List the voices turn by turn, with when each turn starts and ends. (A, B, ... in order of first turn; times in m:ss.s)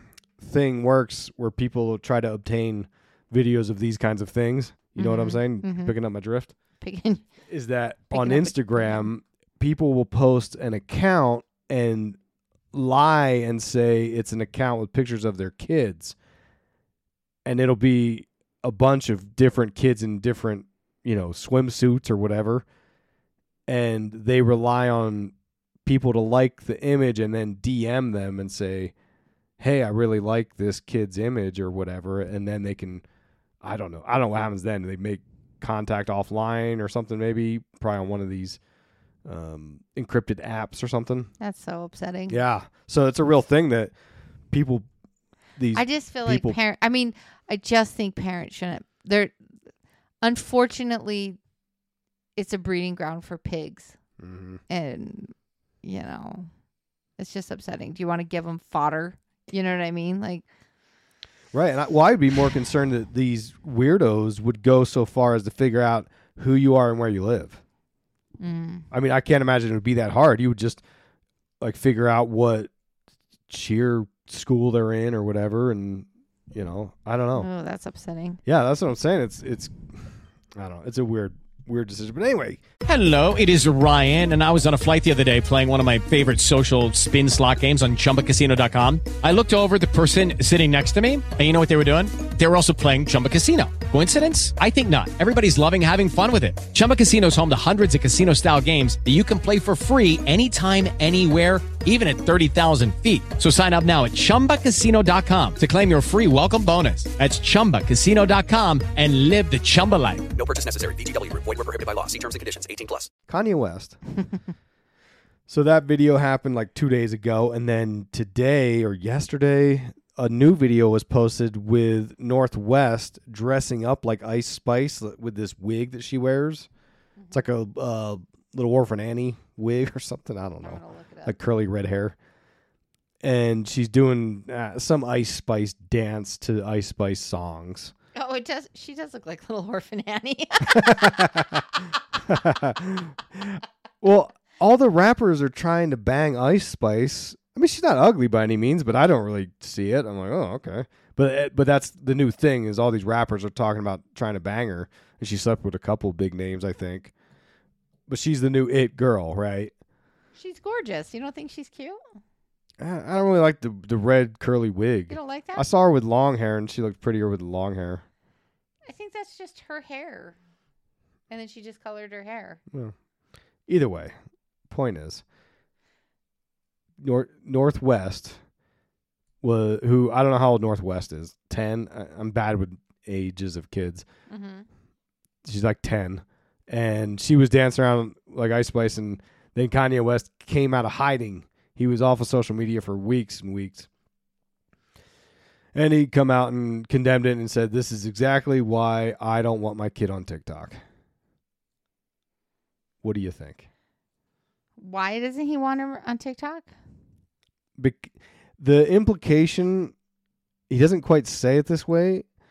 0:00.4-0:06.5 A
0:05.0-0:05.9 B
0:06.8-0:07.3 B
0:07.5-0:12.2 A
0:08.1-0:09.1 B
0:12.7-0:16.1 A
0:17.4-0:22.6 A
0:23.7-0:25.3 A
0:25.8-0:28.9 A
0:29.6-0:33.0 A
0:33.6-0:38.6 A
0:39.2-0:41.3 A
0:41.4-0:42.4 B
0:42.3-0:43.9 A
0:44.5-0:44.9 A
0:45.6-0:46.6 A
0:45.7-0:49.3 B
0:50.2-0:51.4 B
0:52.4-0:54.0 B
0:54.2-0:54.6 A
0:54.7-0:56.5 B
0:57.2-1:00.4 B
1:01.5-1:07.6 A
1:08.4-1:08.8 B
1:08.9-1:10.8 A
1:11.6-1:12.7 A
1:13.5-1:17.5 A
1:17.4-1:18.4 B
1:18.4-1:19.8 A
1:20.5-1:22.6 A
1:22.8-1:50.3 C
1:50.3-1:53.1 D
1:53.3-1:54.0 A
1:55.5-2:06.7 A
2:07.3-2:12.1 A
2:10.6-2:11.4 B
2:13.2-2:17.9 A
2:18.1-2:21.6 B
2:20.7-2:21.6 A
2:22.2-2:37.1 A
2:38.1-2:39.7 A
2:40.4-2:42.0 B
2:42.8-2:48.0 A
2:45.1-2:45.6 B
2:48.9-2:50.4 B
2:51.3-2:52.6 B
2:53.7-2:54.1 A
2:54.7-2:55.2 A
2:57.0-2:58.4 A
2:59.4-3:04.0 A
3:04.3-3:04.6 B
3:05.4-3:13.9 A
3:15.7-3:20.8 A
3:23.0-3:23.7 A
3:24.8-3:26.7 B
3:27.8-3:29.9 A
3:30.7-3:32.2 A